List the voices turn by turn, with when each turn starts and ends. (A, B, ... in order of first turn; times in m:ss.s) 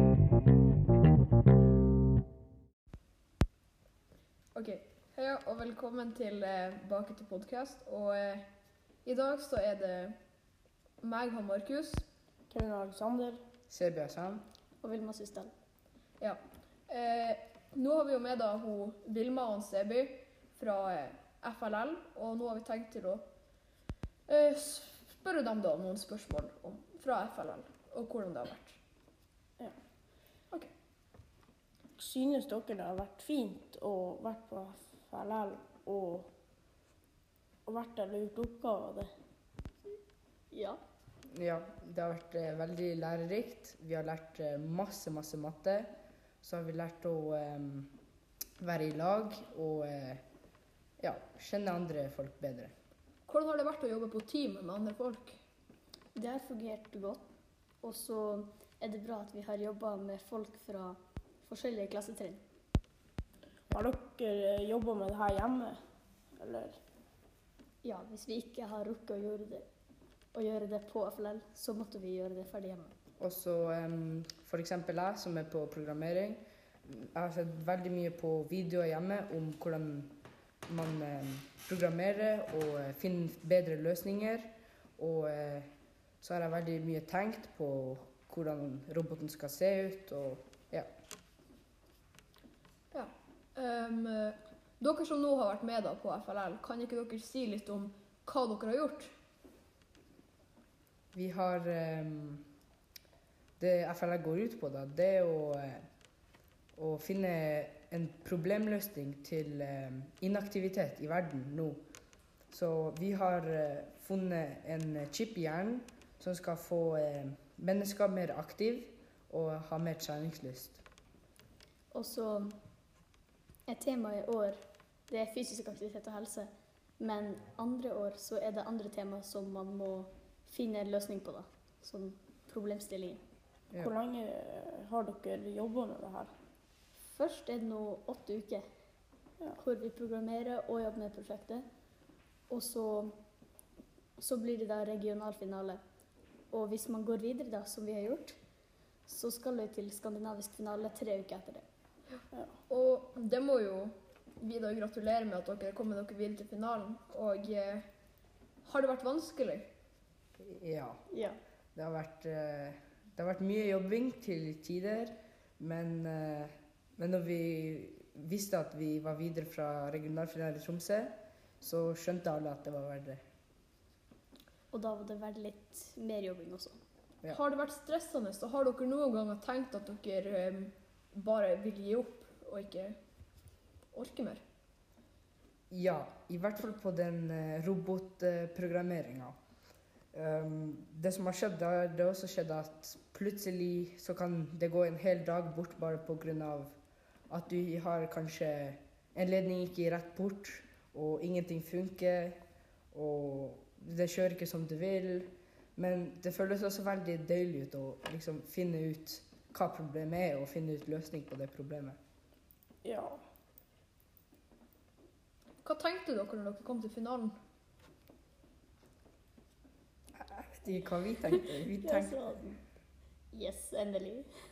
0:04.5-0:08.5 A
0:09.0-0:10.2 A
0:11.0-0:12.0 A
0:12.5-0:13.4 B
0:13.7-0:14.4 C
0:14.8-0:15.5 D
0:16.2-0:23.2 A
0:24.3-0:28.8 A
0:32.0-0:36.3 B
0:37.6-0:39.1 B
0:40.5-0:40.8 D
0:41.3-0:47.9 C
0:48.6-0:50.2 C
0:51.0-0:52.7 C
0:53.3-0:55.4 A
0:56.2-0:57.3 D
0:57.8-1:02.4 D
1:03.7-1:05.8 B
1:06.4-1:06.8 B
1:07.8-1:09.7 D
1:10.3-1:12.9 D
1:13.2-1:20.1 C
1:20.7-1:30.9 C
1:32.9-1:39.1 A
1:41.1-1:42.5 C
1:43.6-1:45.8 C
1:46.8-1:51.8 C
1:52.5-2:00.8 C
2:01.9-2:02.6 D
2:03.7-2:13.2 D
2:13.8-2:16.3 B
2:17.1-2:18.6 D
2:19.6-2:21.6 D
2:22.5-2:23.2 D
2:24.2-2:25.8 D
2:26.5-2:28.4 D
2:29.1-2:31.6 D
2:32.1-2:37.8 A
2:32.3-2:32.6 B
2:38.6-2:39.7 A
2:40.4-2:41.0 C
2:41.1-2:41.4 D
2:41.7-2:53.2 C
2:54.7-2:56.8 D
2:57.3-3:03.0 A
3:03.9-3:04.4 A
3:05.7-3:09.4 C
3:10.1-3:16.7 C
3:17.3-3:22.4 C
3:22.9-3:32.0 C
3:32.8-3:33.2 B
3:35.6-3:37.3 A
3:40.1-3:42.2 C
3:41.8-3:42.6 D
3:43.3-3:44.3 D